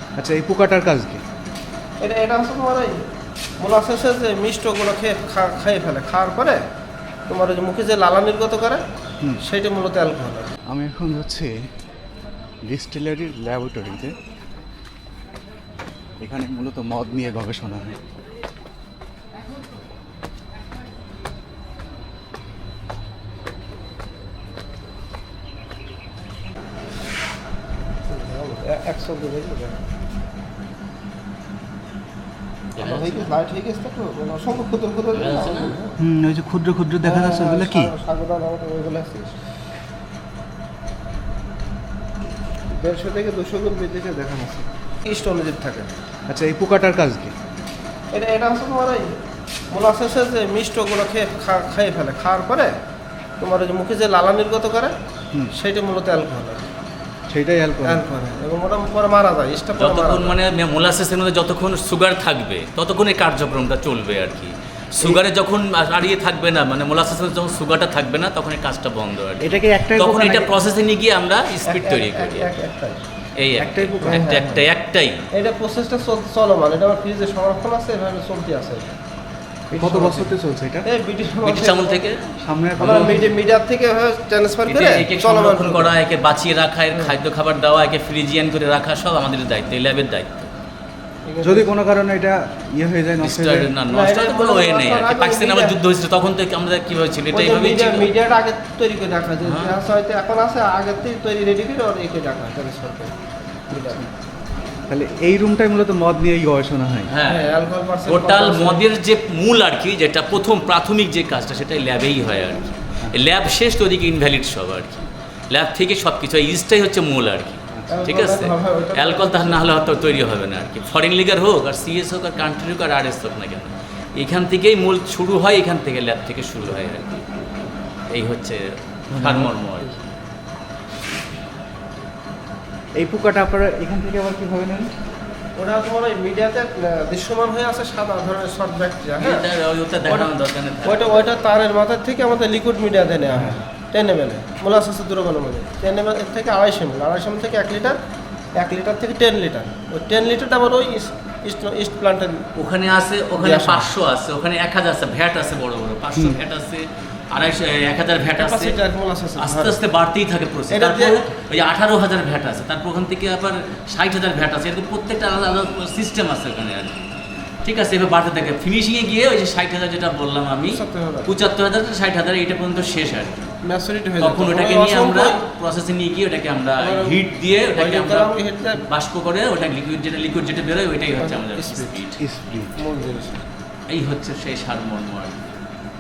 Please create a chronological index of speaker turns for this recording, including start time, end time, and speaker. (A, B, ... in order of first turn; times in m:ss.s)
0:00.2-0:01.2 A
0:02.0-0:03.0 B
0:03.6-0:06.6 B
0:07.3-0:08.8 B
0:09.4-0:10.5 B
0:10.7-0:11.6 A
0:12.6-0:14.2 A
0:16.2-0:18.0 A
0:28.1-0:29.8 B
0:32.8-0:33.3 C
0:32.8-0:36.0 B
0:35.1-0:35.7 C
0:36.0-0:37.9 A
0:37.0-0:39.4 B
0:42.7-0:45.9 B
0:46.3-0:47.3 A
0:48.1-0:49.2 B
0:49.7-0:52.7 B
0:53.4-0:54.9 B
0:55.5-0:56.7 B
0:57.3-0:58.0 A
0:57.8-1:00.3 B
0:59.8-1:12.5 C
1:09.4-1:10.5 A
1:11.6-1:13.0 B
1:13.4-1:15.2 C
1:13.6-1:14.3 A
1:14.0-1:14.6 B
1:15.3-1:18.9 B
1:19.7-1:22.0 B
1:19.7-1:20.8 A
1:21.4-1:22.3 C
1:22.4-1:23.3 A
1:22.8-1:25.9 B
1:24.7-1:30.5 C
1:26.9-1:27.2 B
1:31.2-1:31.7 B
1:31.4-1:33.7 A
1:33.2-1:38.1 C
1:33.9-1:35.8 B
1:37.3-1:43.1 B
1:39.4-1:39.8 C
1:43.7-1:44.0 B
1:43.8-1:44.0 A
1:44.9-1:47.1 A
1:47.1-1:47.5 C
1:47.2-1:48.8 B
1:48.0-2:07.3 C
1:57.9-2:00.1 B
2:08.1-2:10.0 C
2:09.1-2:09.5 A
2:13.0-2:14.9 A
2:15.6-2:19.4 B
2:19.2-2:21.3 C
2:20.8-2:28.0 B
2:28.6-2:32.5 B
2:32.5-2:38.8 C
2:33.4-2:33.9 B
2:38.4-2:39.8 B
2:39.4-2:47.1 C
2:40.7-2:41.2 B
2:47.6-2:53.5 C
2:50.7-2:51.4 B
2:53.6-2:55.4 B
2:54.2-3:02.2 C
2:56.8-2:57.2 B
2:57.7-2:58.8 B
3:01.2-3:02.0 B
3:02.2-3:02.7 A
3:02.7-3:03.4 B
3:03.9-3:05.6 C